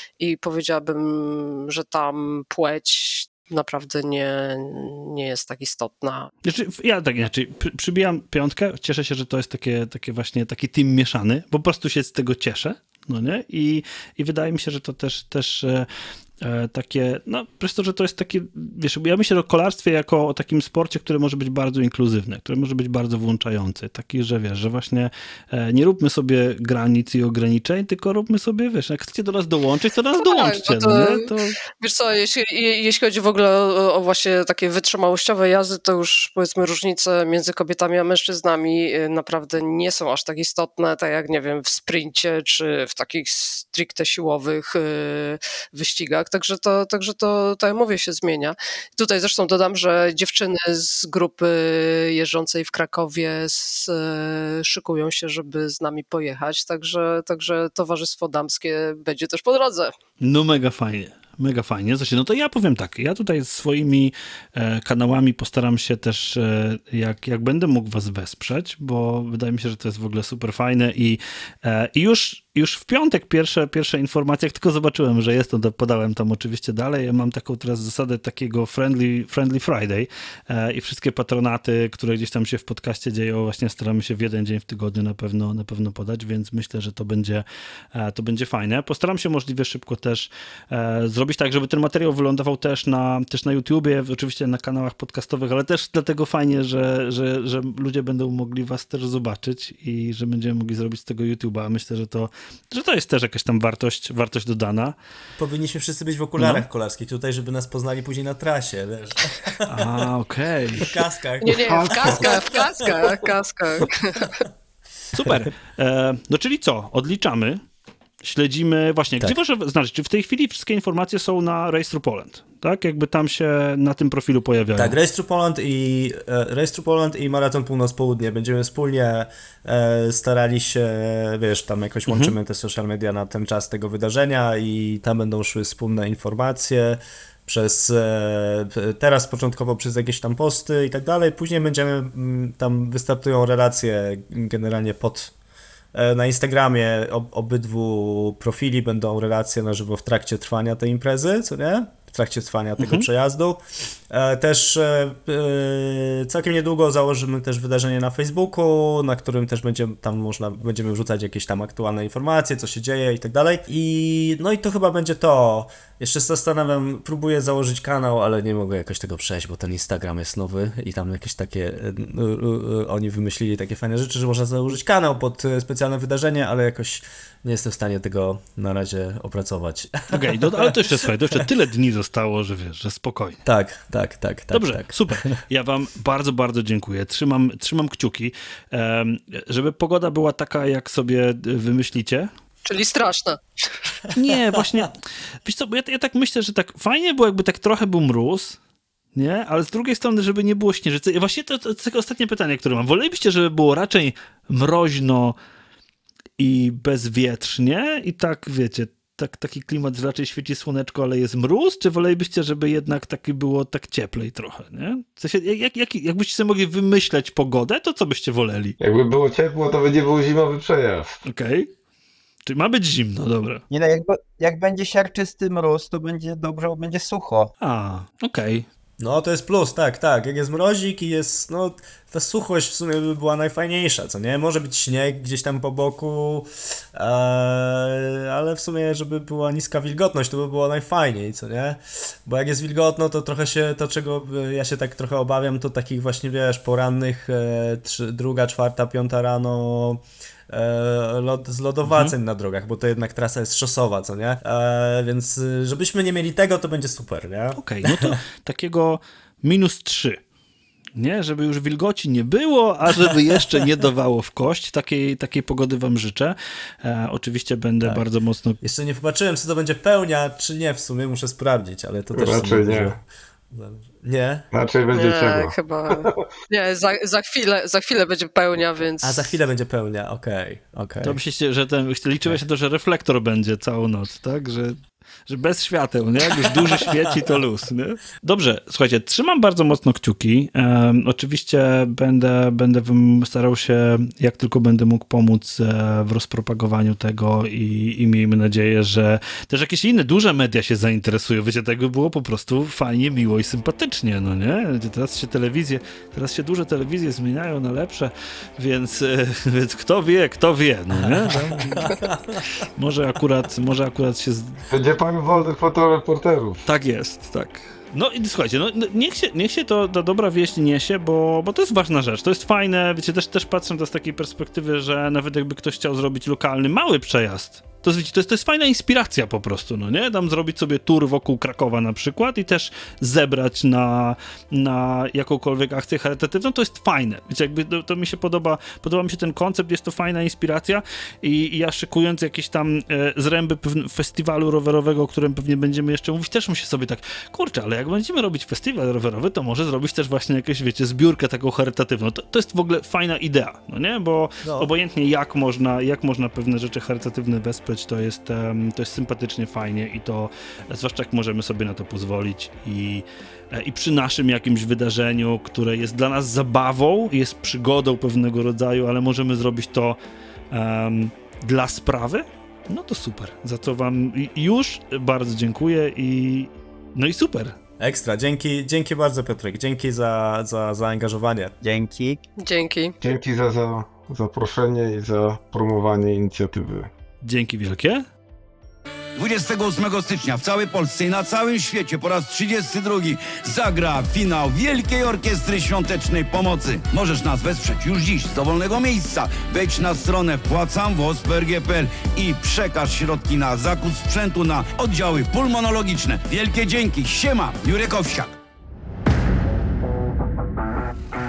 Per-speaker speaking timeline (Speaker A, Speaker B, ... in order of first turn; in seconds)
Speaker A: 0.2-6.3, 30.2-59.9, 111.4-114.4, 192.7-193.4, 274.9-279.4, 382.4-383.0
Speaker B: 6.4-15.9, 16.4-31.4, 60.2-105.0, 106.4-106.6, 109.7-110.9, 115.1-117.6, 118.2-125.0, 132.1-132.3, 152.8-153.1, 180.1-183.4, 184.5-192.3, 194.1-198.6, 199.2-205.4, 206.4-218.8, 221.2-221.7, 222.5-223.6, 227.6-228.7, 251.9-252.1, 257.6-260.2, 261.0-268.6, 281.0-311.9, 312.8-314.5, 316.6-370.0, 370.5-377.6, 387.2-388.1
Speaker C: 105.4-110.1, 110.8-113.0, 124.8-145.3, 145.9-181.4, 183.4-185.4, 229.0-258.2, 268.6-273.0, 273.5-274.5, 279.0-281.2, 311.0-312.4, 354.4-354.7, 377.8-381.6
Speaker D: 111.6-112.5, 218.8-221.2, 272.1-273.0, 274.5-276.3, 314.7-316.6, 383.0-386.9
Speaker E: 223.7-227.5, 381.6-382.2
Speaker F: 389.2-408.3